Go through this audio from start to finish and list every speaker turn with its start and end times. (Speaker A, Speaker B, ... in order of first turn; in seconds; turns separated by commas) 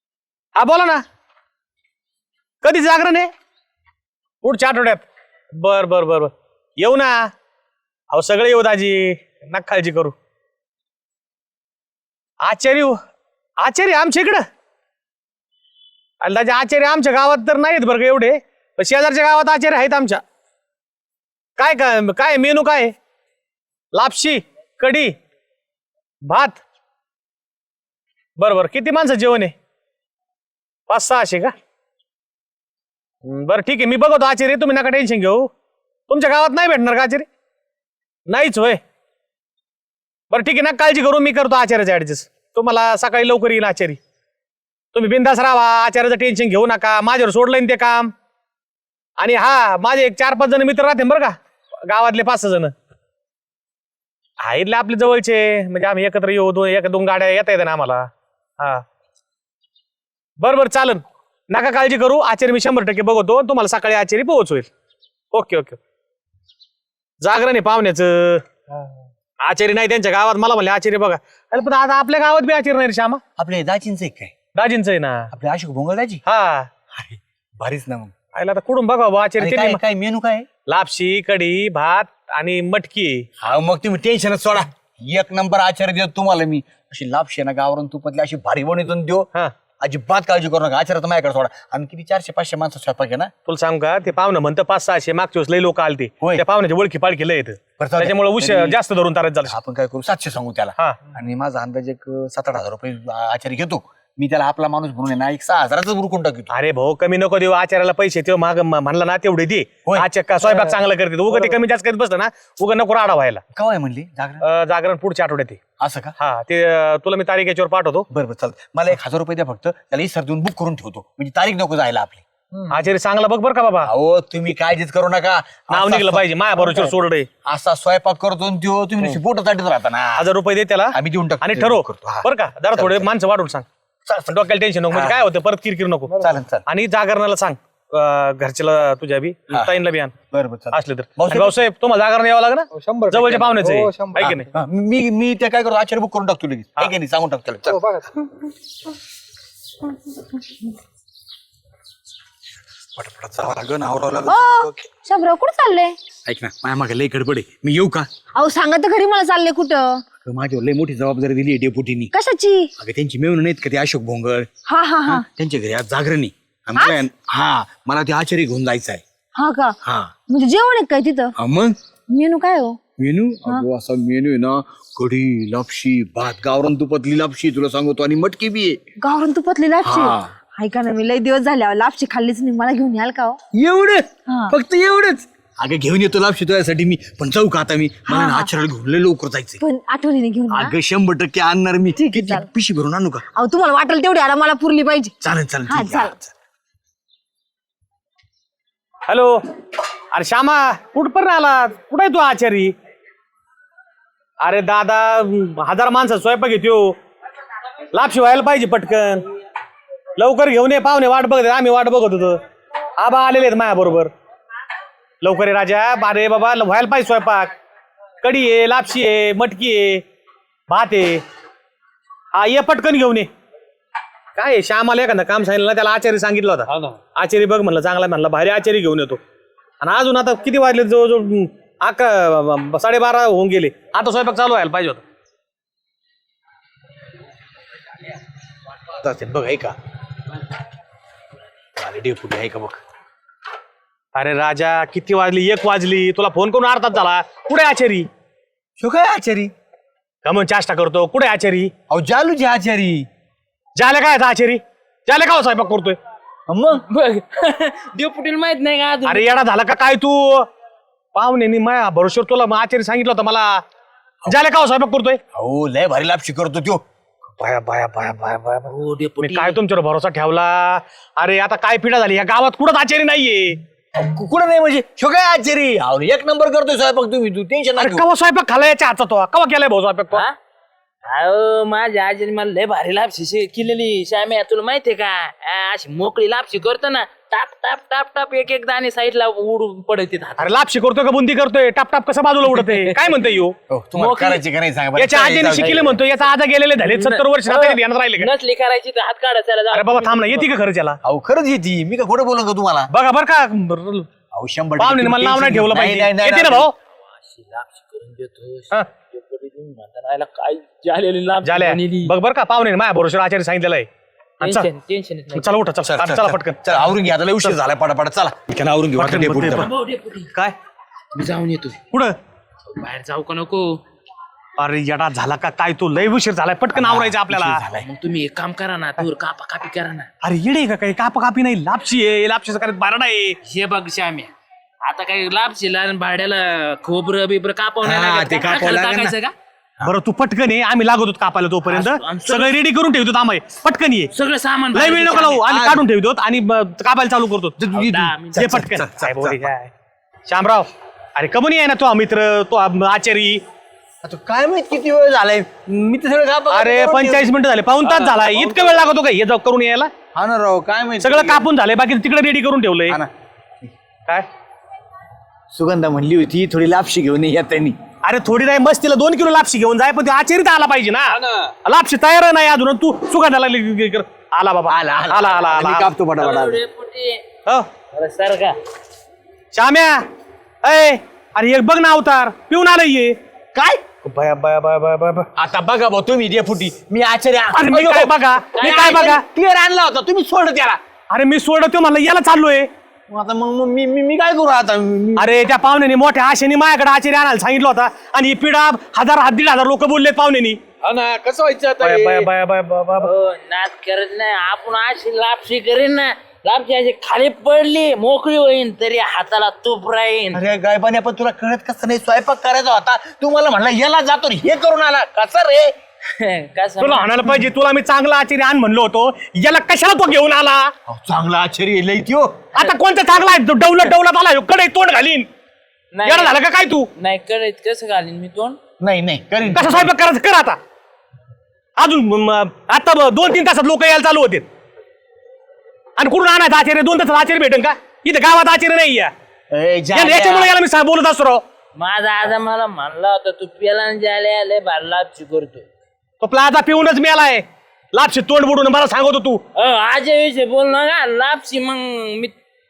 Speaker A: 0.6-1.0, Speaker A: 2.6-3.3, Speaker A: 4.4-7.3, Speaker A: 8.1-10.1, Speaker A: 12.4-13.0, Speaker A: 13.6-14.4, Speaker A: 16.2-20.2, Speaker A: 21.6-22.9, Speaker A: 23.9-25.1, Speaker A: 26.2-26.6, Speaker A: 28.4-29.5, Speaker A: 30.9-31.5, Speaker A: 33.2-35.5, Speaker A: 36.1-37.3, Speaker A: 38.3-38.8, Speaker A: 40.3-44.0, Speaker A: 44.9-48.1, Speaker A: 49.2-51.4, Speaker A: 51.9-52.7, Speaker A: 54.4-58.8, Speaker A: 60.4-64.7, Speaker A: 65.3-65.8, Speaker A: 67.2-68.7, Speaker A: 69.4-73.2, Speaker B: 73.4-74.3, Speaker A: 74.5-75.3, Speaker B: 75.3-76.2, Speaker A: 76.2-76.7, Speaker B: 77.0-78.1, Speaker A: 78.3-79.8, Speaker B: 79.4-80.5, Speaker A: 80.7-83.3, Speaker B: 83.4-89.3, Speaker B: 89.8-93.3, Speaker A: 93.5-99.5, Speaker B: 97.8-98.8, Speaker B: 99.4-106.5, Speaker A: 106.5-113.4, Speaker B: 109.8-110.8, Speaker B: 113.5-114.4, Speaker A: 114.4-115.6, Speaker B: 115.8-116.2, Speaker A: 116.2-118.1, Speaker B: 118.1-122.2, Speaker A: 122.7-123.9, Speaker B: 123.8-126.9, Speaker A: 125.7-127.3, Speaker B: 127.4-130.3, Speaker A: 130.2-136.1, Speaker B: 130.9-133.1, Speaker B: 134.9-135.2, Speaker B: 136.2-136.7, Speaker A: 136.7-140.1, Speaker B: 139.5-139.8, Speaker B: 140.3-141.5, Speaker A: 140.7-144.5, Speaker C: 142.7-144.2, Speaker B: 144.2-147.8, Speaker C: 147.7-148.1, Speaker B: 152.9-154.8, Speaker D: 154.3-156.0, Speaker B: 156.2-158.1, Speaker D: 158.3-160.0, Speaker B: 160.2-162.1, Speaker D: 162.1-162.7, Speaker B: 162.8-164.5, Speaker D: 164.7-165.2, Speaker B: 165.0-169.0, Speaker D: 169.3-169.8, Speaker B: 169.8-170.1, Speaker D: 170.3-171.3, Speaker B: 171.4-171.7, Speaker D: 172.1-172.8, Speaker B: 173.0-178.8, Speaker D: 179.0-183.4, Speaker B: 179.8-180.3, Speaker B: 183.5-189.6, Speaker D: 184.3-184.5, Speaker D: 188.1-188.5, Speaker D: 189.6-190.7, Speaker B: 190.5-193.2, Speaker D: 192.0-192.5, Speaker D: 193.3-195.1, Speaker B: 195.2-196.3, Speaker D: 195.7-196.1, Speaker A: 199.1-199.4, Speaker A: 200.1-202.7, Speaker A: 204.4-206.9, Speaker A: 207.9-209.2, Speaker A: 210.2-212.4, Speaker A: 213.0-214.1, Speaker A: 215.2-217.5, Speaker A: 218.2-220.0, Speaker A: 220.7-221.2, Speaker A: 222.3-223.3, Speaker A: 224.3-229.2, Speaker C: 226.7-227.0, Speaker A: 229.8-235.0, Speaker B: 238.9-239.8, Speaker B: 241.8-242.8, Speaker A: 244.1-248.1, Speaker B: 248.8-249.5, Speaker A: 250.2-251.7, Speaker B: 251.9-253.1, Speaker A: 253.8-256.0, Speaker B: 256.5-256.8, Speaker E: 256.9-259.2, Speaker A: 259.1-260.5, Speaker A: 261.1-263.6, Speaker A: 264.2-265.2, Speaker B: 265.3-266.8, Speaker A: 267.4-273.6, Speaker E: 268.7-269.6, Speaker B: 274.0-278.0, Speaker A: 277.8-280.2, Speaker E: 281.1-290.5, Speaker A: 290.4-293.5, Speaker E: 292.5-293.1, Speaker B: 293.7-295.9, Speaker E: 293.9-294.4, Speaker A: 294.9-298.3, Speaker E: 296.8-300.5, Speaker A: 299.7-301.0, Speaker B: 301.0-302.9, Speaker A: 302.9-304.1, Speaker B: 304.3-306.7, Speaker A: 304.8-306.7, Speaker E: 307.3-312.1, Speaker A: 311.4-313.9, Speaker A: 314.4-314.7, Speaker E: 314.4-315.5, Speaker A: 315.3-316.7, Speaker B: 315.9-319.7, Speaker A: 318.9-319.7, Speaker E: 319.4-320.3, Speaker E: 321.1-321.8, Speaker E: 322.7-323.8, Speaker A: 324.6-327.6, Speaker B: 326.7-327.9, Speaker E: 327.8-330.1, Speaker A: 330.2-333.4, Speaker E: 333.4-334.3, Speaker E: 334.8-339.3, Speaker B: 337.8-339.1, Speaker A: 339.8-344.1, Speaker E: 341.6-342.5, Speaker E: 344.1-345.4, Speaker A: 344.7-347.6, Speaker B: 345.5-345.9, Speaker B: 347.6-349.5, Speaker E: 347.7-348.4, Speaker A: 348.3-349.7, Speaker A: 350.3-353.4, Speaker B: 354.0-357.3, Speaker A: 356.5-359.9, Speaker B: 357.9-358.5, Speaker B: 360.1-361.4, Speaker A: 361.0-363.0, Speaker B: 365.5-367.8, Speaker A: 368.0-375.9, Speaker C: 371.1-371.5, Speaker B: 374.7-376.6, Speaker E: 376.2-377.2, Speaker E: 377.9-378.6, Speaker A: 379.5-380.0, Speaker A: 380.6-383.1, Speaker B: 383.5-383.8, Speaker A: 384.0-385.3, Speaker B: 385.4-388.1, Speaker A: 387.5-389.2, Speaker E: 388.5-389.1, Speaker B: 388.8-390.8, Speaker A: 391.1-392.7, Speaker B: 393.1-395.4, Speaker A: 395.1-400.6, Speaker C: 400.8-402.3, Speaker A: 401.8-403.1, Speaker E: 403.0-410.4, Speaker B: 410.3-415.7, Speaker E: 416.2-417.1, Speaker A: 416.8-420.7, Speaker B: 420.9-422.5, Speaker A: 422.5-425.3, Speaker E: 425.9-426.4, Speaker A: 426.1-426.9, Speaker E: 426.9-428.6, Speaker B: 428.8-429.9, Speaker A: 429.5-430.6, Speaker A: 431.8-434.4, Speaker A: 436.0-439.1, Speaker B: 439.5-440.5, Speaker A: 439.9-441.4, Speaker E: 441.8-445.6, Speaker A: 446.2-449.4, Speaker E: 449.5-452.3